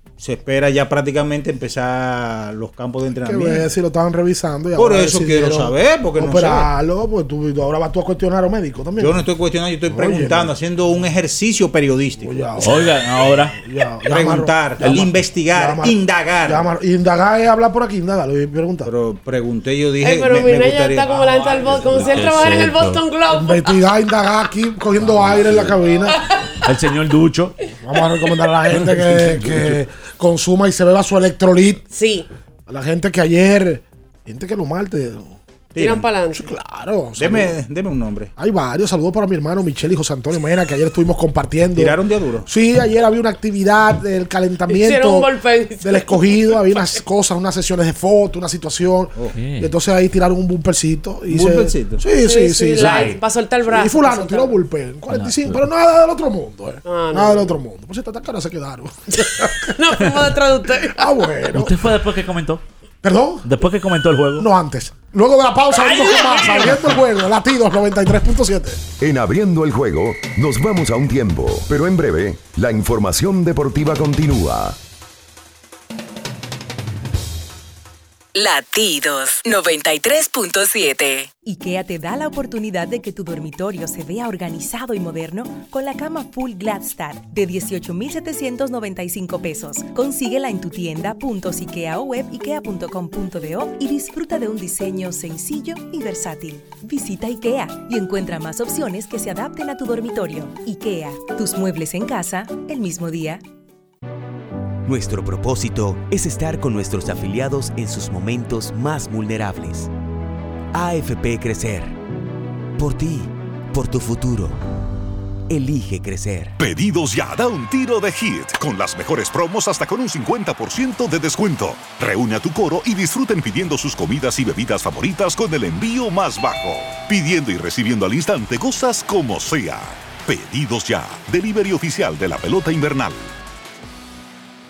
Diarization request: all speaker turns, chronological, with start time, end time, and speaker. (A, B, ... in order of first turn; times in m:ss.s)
0:00.2-0:03.7 A
0:03.2-0:09.2 B
0:04.8-0:06.7 A
0:09.0-0:12.4 A
0:09.9-0:10.5 B
0:12.2-0:13.0 B
0:12.6-0:13.6 C
0:13.6-0:18.9 B
0:14.1-0:16.7 A
0:18.8-0:22.6 A
0:20.0-0:23.8 D
0:22.1-0:23.0 C
0:23.3-0:26.2 B
0:25.0-0:25.8 A
0:26.6-0:27.5 C
0:27.8-0:31.8 B
0:28.7-0:29.6 C
0:31.9-0:32.3 D
0:32.7-0:35.4 B
0:35.8-0:36.1 A
0:35.8-0:36.5 D
0:36.3-0:37.6 B
0:37.2-0:38.3 A
0:38.4-0:42.0 B
0:41.8-0:42.5 A
0:42.5-0:45.3 B
0:44.7-0:47.0 D
0:45.8-0:59.7 B
0:49.3-0:49.7 C
0:51.3-0:52.1 A
0:52.2-0:54.6 D
0:52.8-0:53.2 C
0:55.1-0:55.6 C
0:56.8-0:57.6 D
0:59.7-1:01.1 D
1:01.0-1:01.7 B
1:01.5-1:02.6 C
1:03.0-1:03.4 B
1:03.4-1:04.5 C
1:04.4-1:08.8 B
1:05.7-1:07.0 C
1:09.0-1:14.8 E
1:18.3-1:21.3 F
1:21.4-1:43.4 G
1:44.8-1:49.9 H
1:50.7-1:52.0 H
1:52.8-1:54.6 H
1:55.5-1:56.6 H
1:56.6-2:13.3 I